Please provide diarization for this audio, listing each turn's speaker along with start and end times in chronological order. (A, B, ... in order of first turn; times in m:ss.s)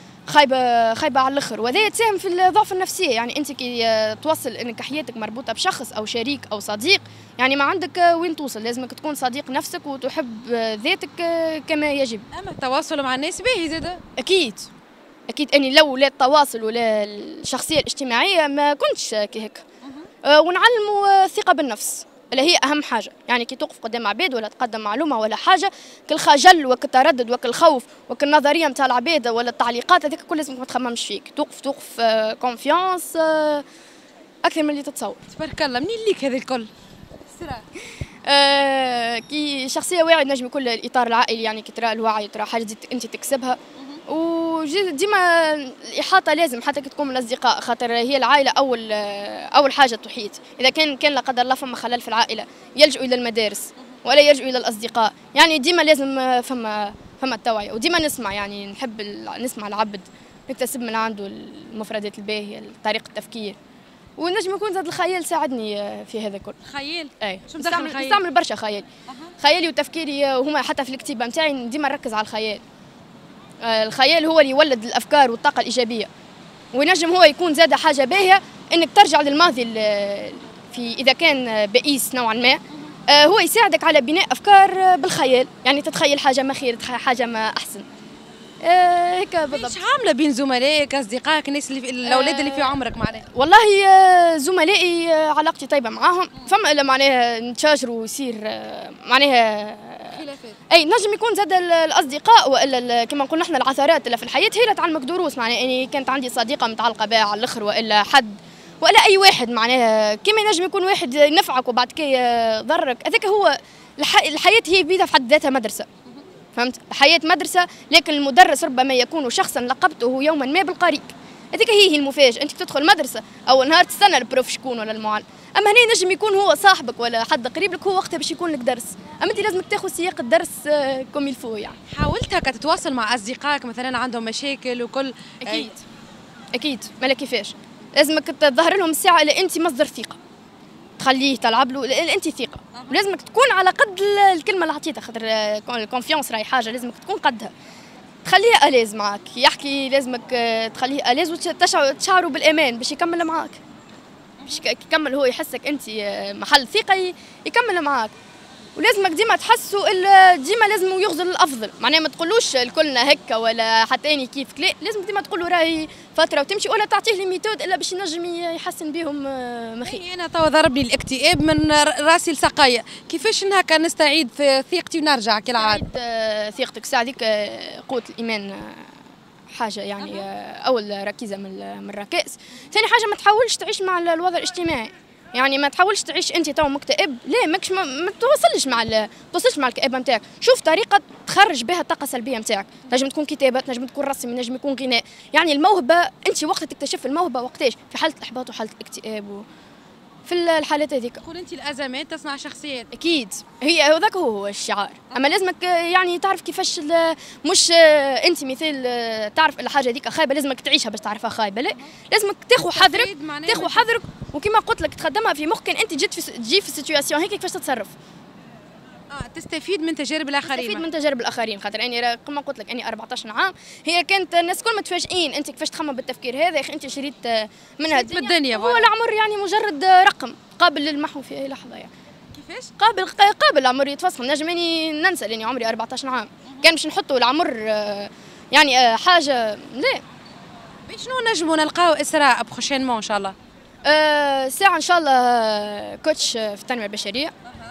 0:00.3-0:12.3 A
0:12.3-0:14.0 B
0:14.2-0:14.7 A
0:15.3-0:19.6 A
0:20.2-0:33.6 A
0:34.4-0:35.2 A
0:35.3-0:36.7 B
0:37.3-0:37.7 B
0:38.3-1:03.6 A
1:04.2-1:06.6 A
1:06.6-1:08.2 B
1:07.2-1:08.9 A
1:09.1-1:09.3 B
1:09.4-1:12.6 A
1:13.6-1:16.1 A
1:16.7-1:27.8 A
1:28.6-1:29.8 A
1:29.5-1:33.3 B
1:32.0-1:32.8 A
1:33.3-1:40.2 A
1:40.1-1:40.6 B
1:40.7-1:55.9 A
1:56.6-2:11.8 A
2:11.9-2:15.7 B
2:15.4-2:15.8 A
2:16.6-2:20.2 A
2:21.0-2:27.5 A
2:28.2-2:33.6 A
2:34.5-2:38.1 A
2:38.8-2:50.0 A
2:49.8-2:55.8 B
2:55.6-2:58.9 A
2:59.5-3:19.4 A
3:00.0-3:00.3 B
3:20.3-3:21.2 A
3:21.2-3:22.9 B
3:22.9-3:37.9 A
3:32.6-3:33.9 B
3:39.1-3:40.8 B
3:40.5-3:51.9 A
3:47.9-3:48.9 B
3:52.3-3:52.7 B
3:52.8-4:00.0 A
4:00.9-4:03.4 B
4:03.8-4:07.3 A